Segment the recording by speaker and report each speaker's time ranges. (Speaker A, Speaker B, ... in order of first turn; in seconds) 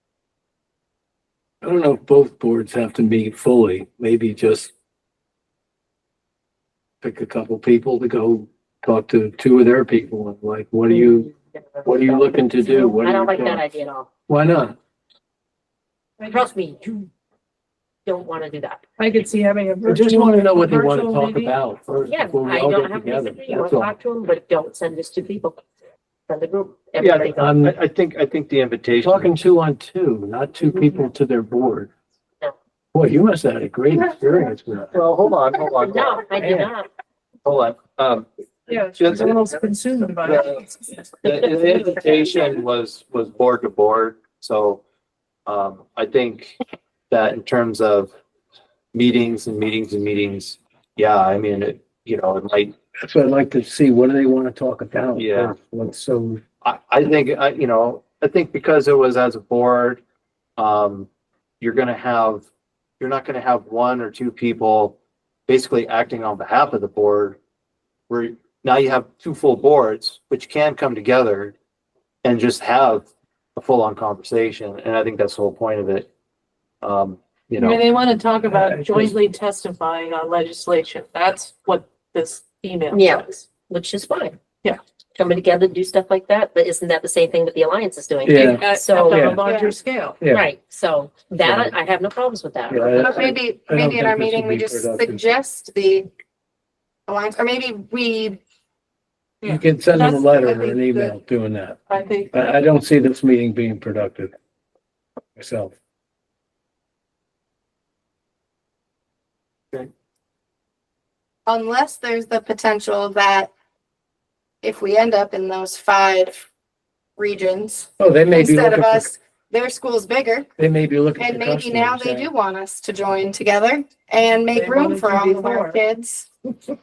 Speaker A: 1.6-4.7, 7.0-11.3, 11.8-13.6, 14.3-14.8, 19.8-23.9, 27.3-27.7, 29.0-31.9, 32.9-35.0, 36.4-36.7, 53.0-56.4, 78.5-79.1, 88.2-89.4, 90.2-90.5, 91.4-91.7, 92.7-95.2, 99.5-101.8, 102.3-104.3, 105.4-105.7, 118.0-119.1, 120.6-122.3
Speaker B: 10.9-14.1, 16.3-17.1, 18.0-18.8, 22.1-25.6, 26.3-27.5, 35.8-36.9, 41.2-42.2, 82.9-84.4, 85.1-89.4, 90.3-93.0
Speaker C: 19.0-21.5, 38.7-41.3, 77.6-83.4, 88.4-90.2, 99.4-101.1, 101.9-102.3, 124.5-125.8
Speaker D: 27.0-29.3, 34.9-36.2, 37.4-38.3, 39.0-39.5, 40.2-40.6, 41.2-44.8, 45.5-46.6, 47.1-48.1, 48.9-52.7, 55.1-55.5, 56.6-60.0, 60.6-61.1, 61.6-62.5, 63.0-67.4, 68.1-71.5, 72.2-76.1, 76.8-77.8
Speaker E: 92.9-96.1, 97.1-98.4, 111.5-113.5, 114.6-116.5, 117.2-120.5, 121.2-126.3